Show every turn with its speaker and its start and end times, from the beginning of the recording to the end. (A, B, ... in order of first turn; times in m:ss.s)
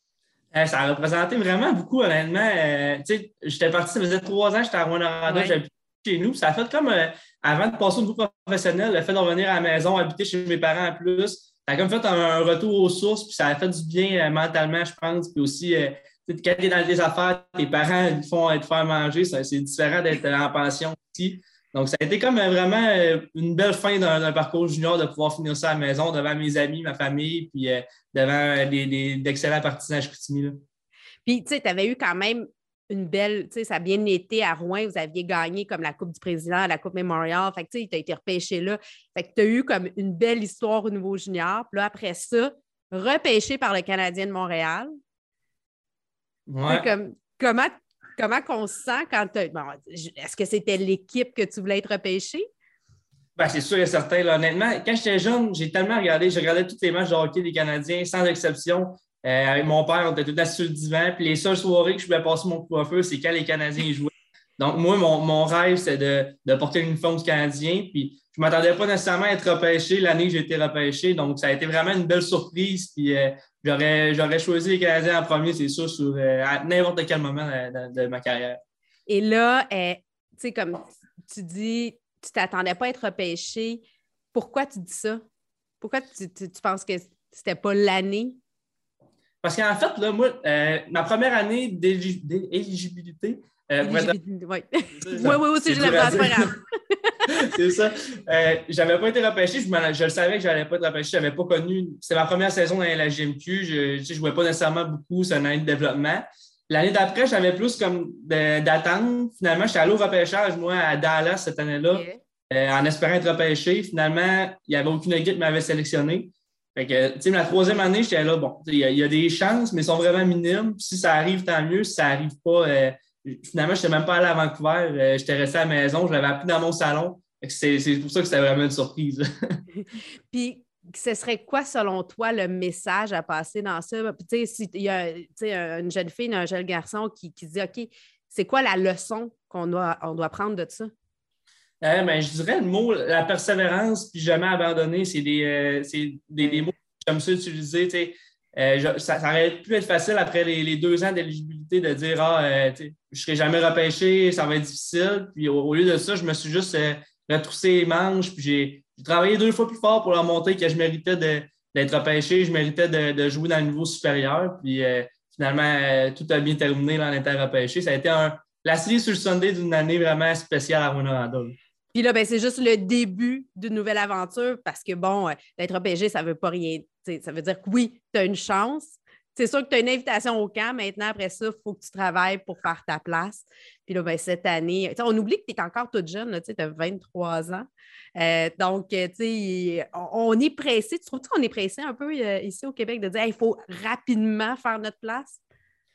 0:00.5-0:30.6 A
0:05.3-0:05.6 B
0:31.2-0:44.9 B
0:46.5-0:46.9 A
0:46.7-0:52.5 B
0:53.4-1:18.6 A
1:19.1-1:25.2 B
1:25.8-1:28.4 B
1:29.4-1:34.2 A
1:33.8-1:37.4 B
1:34.9-1:36.6 A
1:37.3-2:09.6 A
1:51.9-1:52.2 B
2:09.8-2:20.9 B
2:21.8-2:51.6 A
2:26.4-2:26.7 B
2:51.9-3:15.4 B